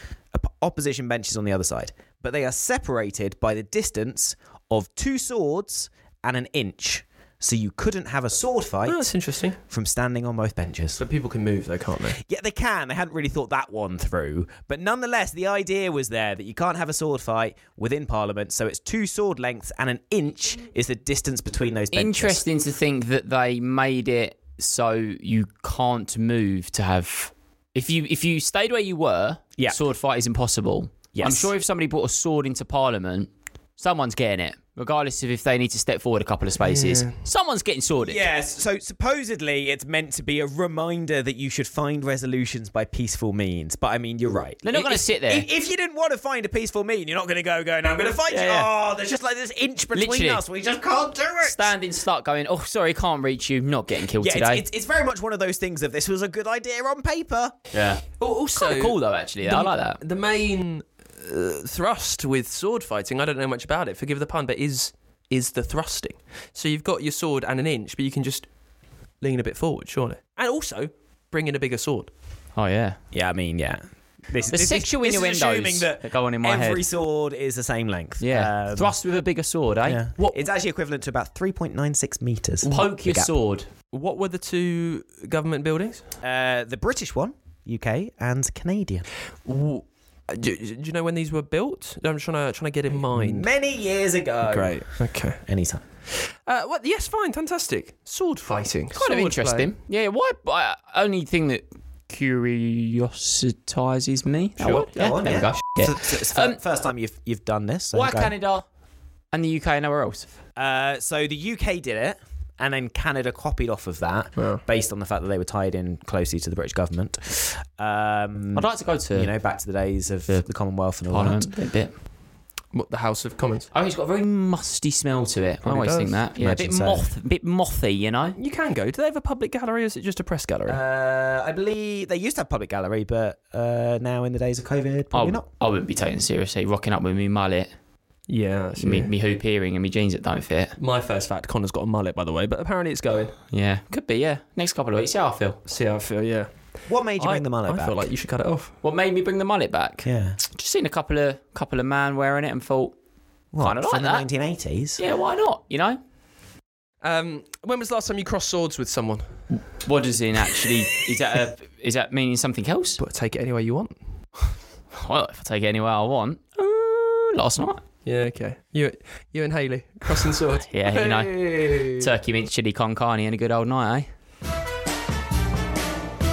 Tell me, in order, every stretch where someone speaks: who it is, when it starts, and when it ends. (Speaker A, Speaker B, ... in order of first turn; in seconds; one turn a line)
Speaker A: 0.3-9.1
Speaker B: 8.9-9.6
Speaker A: 9.7-11.0
Speaker B: 11.0-12.2
Speaker A: 12.2-22.4
Speaker C: 21.9-38.2
Speaker A: 31.1-31.5
Speaker B: 36.7-37.2
Speaker A: 38.0-51.8
Speaker C: 44.6-45.5
Speaker C: 48.3-48.7
Speaker C: 49.9-50.4
Speaker C: 51.4-54.6
Speaker A: 54.2-57.6
Speaker C: 57.7-60.0
Speaker B: 58.2-68.5
Speaker B: 69.2-72.1
Speaker C: 72.5-73.0
Speaker A: 73.1-79.0
Speaker C: 74.5-76.9
Speaker C: 78.2-80.0
Speaker A: 79.8-83.3
Speaker C: 82.7-83.7
Speaker B: 83.9-86.1
Speaker A: 86.2-89.1
Speaker B: 89.5-93.5
Speaker A: 92.9-95.8
Speaker B: 94.4-95.4
Speaker B: 96.5-99.7
Speaker C: 98.9-106.6
Speaker B: 104.6-104.9
Speaker A: 104.9-108.3
Speaker C: 107.9-108.7
Speaker C: 109.3-110.3
Speaker A: 110.6-121.5
Speaker B: 114.4-114.6
Speaker C: 118.5-119.3
Speaker C: 121.0-122.0
Speaker B: 122.7-123.7
Speaker C: 123.7-128.4
Speaker B: 125.6-126.2
Speaker A: 126.5-127.1
Speaker B: 128.4-130.8
Speaker A: 130.7-135.5
Speaker C: 135.1-137.7
Speaker B: 138.3-139.1
Speaker C: 138.8-140.8
Speaker B: 140.8-143.3
Speaker C: 143.5-145.6
Speaker B: 145.7-146.5
Speaker A: 146.9-148.0
Speaker B: 147.2-148.7
Speaker C: 148.8-152.9
Speaker A: 150.1-150.4
Speaker A: 153.5-155.0
Speaker C: 153.6-154.3
Speaker C: 155.0-156.0
Speaker B: 157.0-159.6
Speaker C: 159.5-163.0
Speaker B: 163.0-164.6
Speaker C: 165.0-167.8
Speaker B: 168.1-172.0
Speaker C: 170.7-174.1